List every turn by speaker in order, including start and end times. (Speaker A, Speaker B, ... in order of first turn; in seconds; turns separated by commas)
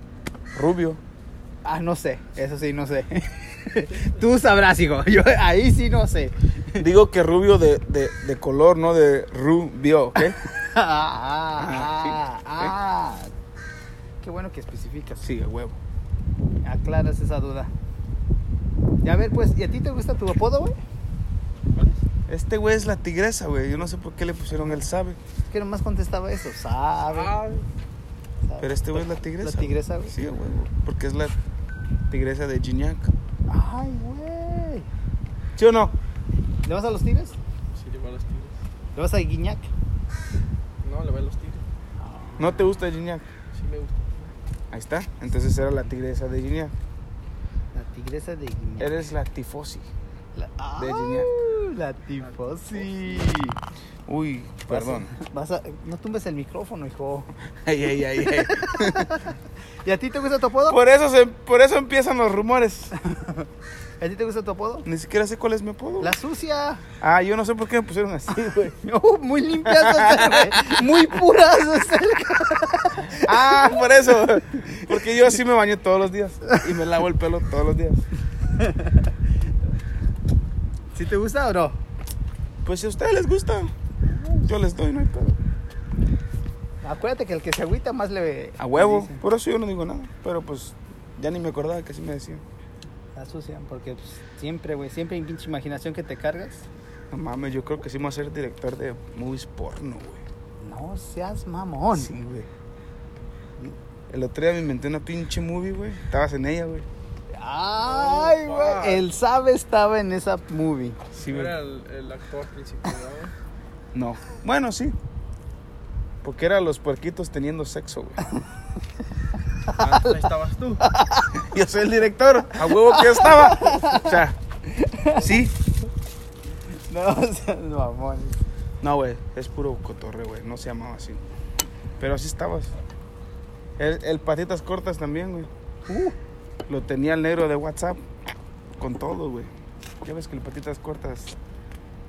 Speaker A: 0.5-1.0, Speaker B: 1.6-6.9, Speaker A: 6.8-10.4, Speaker B: 10.2-13.3, Speaker A: 11.6-12.8, Speaker B: 14.2-15.3, Speaker A: 15.2-15.8, Speaker B: 16.6-17.7, Speaker B: 19.0-20.8, Speaker C: 21.7-22.0, Speaker A: 22.3-25.2, Speaker B: 25.5-27.4, Speaker C: 27.0-27.7, Speaker B: 28.5-30.1, Speaker A: 28.6-31.4, Speaker A: 32.1-33.1, Speaker B: 33.5-34.9, Speaker A: 35.6-36.0, Speaker B: 36.6-37.4, Speaker C: 37.7-38.6, Speaker B: 39.0-39.7, Speaker C: 40.8-41.6, Speaker B: 42.0-42.6, Speaker A: 42.4-43.3, Speaker C: 43.5-44.3, Speaker A: 44.7-46.7, Speaker B: 47.7-49.0, Speaker A: 48.8-49.9, Speaker B: 50.4-53.6, Speaker A: 50.8-51.3, Speaker C: 52.2-53.4, Speaker A: 54.1-55.1, Speaker B: 54.7-57.3, Speaker A: 57.6-59.2, Speaker B: 58.2-60.8, Speaker A: 60.7-62.9, Speaker B: 63.0-63.5, Speaker B: 64.0-64.9, Speaker A: 64.8-66.2, Speaker B: 66.0-66.8, Speaker A: 67.0-68.8, Speaker B: 68.8-74.2, Speaker A: 69.7-70.7, Speaker A: 73.1-78.0, Speaker B: 74.8-75.1, Speaker B: 78.6-79.1, Speaker B: 80.9-81.8, Speaker A: 82.6-83.7, Speaker B: 84.0-84.5, Speaker A: 84.4-85.4, Speaker B: 86.8-89.2, Speaker A: 88.6-92.4, Speaker B: 93.2-96.7, Speaker A: 97.1-100.2, Speaker B: 100.6-102.1, Speaker A: 101.9-102.5, Speaker A: 104.1-106.9, Speaker B: 107.3-111.0, Speaker C: 107.8-109.1, Speaker C: 111.1-113.3, Speaker A: 111.2-111.6, Speaker A: 113.9-115.0, Speaker A: 116.2-118.2, Speaker B: 119.7-120.2, Speaker C: 119.8-120.8, Speaker B: 120.8-121.4, Speaker A: 121.4-124.4, Speaker B: 122.7-124.2, Speaker B: 124.7-125.3, Speaker A: 125.2-125.5, Speaker B: 126.9-128.4, Speaker A: 128.8-131.2, Speaker A: 132.0-132.8, Speaker A: 133.8-135.5, Speaker B: 135.9-136.2, Speaker A: 136.7-138.0, Speaker A: 138.8-139.5, Speaker A: 140.0-141.3